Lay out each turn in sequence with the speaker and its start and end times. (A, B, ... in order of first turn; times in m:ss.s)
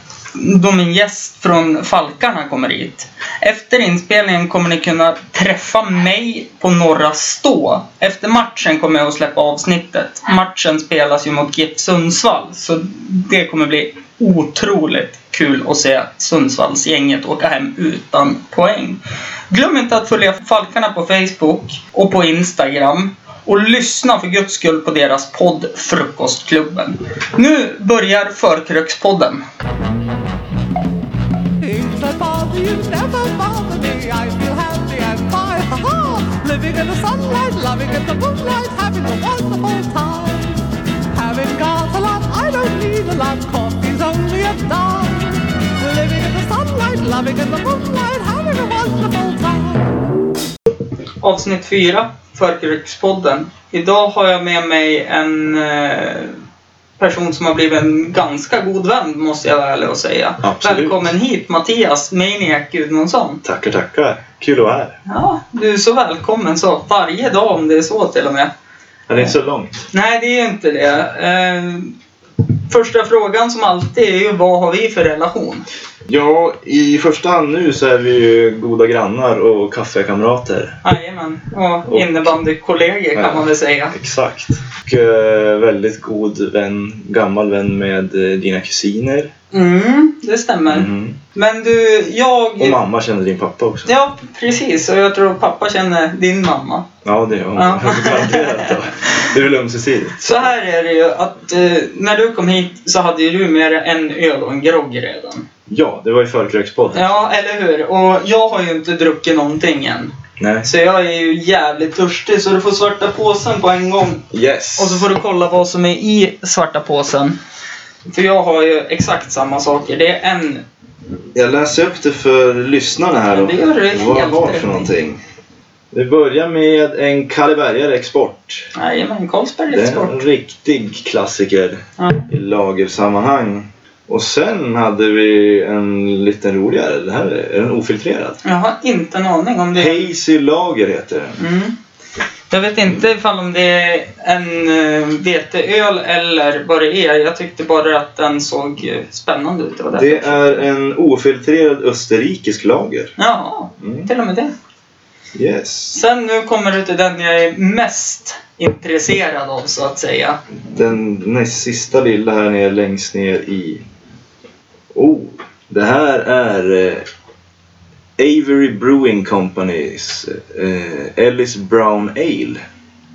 0:00.3-0:29.4 A
0:31.6-0:40.6 B
0:41.1-0:49.9 B
0:51.2-0:56.4 A
0:57.0-1:03.4 A
1:00.4-1:01.1 C
1:03.4-1:05.0 C
1:05.1-1:08.5 A
1:09.1-1:09.9 C
1:09.9-1:11.9 A
1:12.7-1:15.6 A
1:16.1-1:20.8 C
1:20.8-1:24.0 A
1:21.9-1:22.4 C
1:23.2-1:29.3 C
1:29.5-1:32.8 A
1:30.7-1:31.2 C
1:32.6-1:33.9 C
1:33.9-1:36.9 A
1:37.0-1:40.5 C
1:37.6-1:38.7 A
1:40.2-1:45.4 A
1:45.7-1:47.2 C
1:46.9-1:54.2 A
1:50.4-1:50.7 C
1:54.3-1:55.1 C
1:54.8-1:57.4 A
1:58.1-2:00.6 A
2:01.3-2:05.2 C
2:03.3-2:04.9 A
2:05.9-2:08.7 C
2:08.7-2:10.2 A
2:09.7-2:18.4 C
2:12.0-2:12.3 A
2:18.4-2:20.1 A
2:19.7-2:21.4 C
2:21.4-2:21.8 A
2:22.5-2:30.6 A
2:29.9-2:33.2 C
2:33.2-2:34.5 A
2:33.8-2:34.1 C
2:35.3-2:36.0 C
2:35.9-2:40.4 A
2:40.6-2:43.8 C
2:44.9-2:47.1 C
2:48.2-2:52.6 C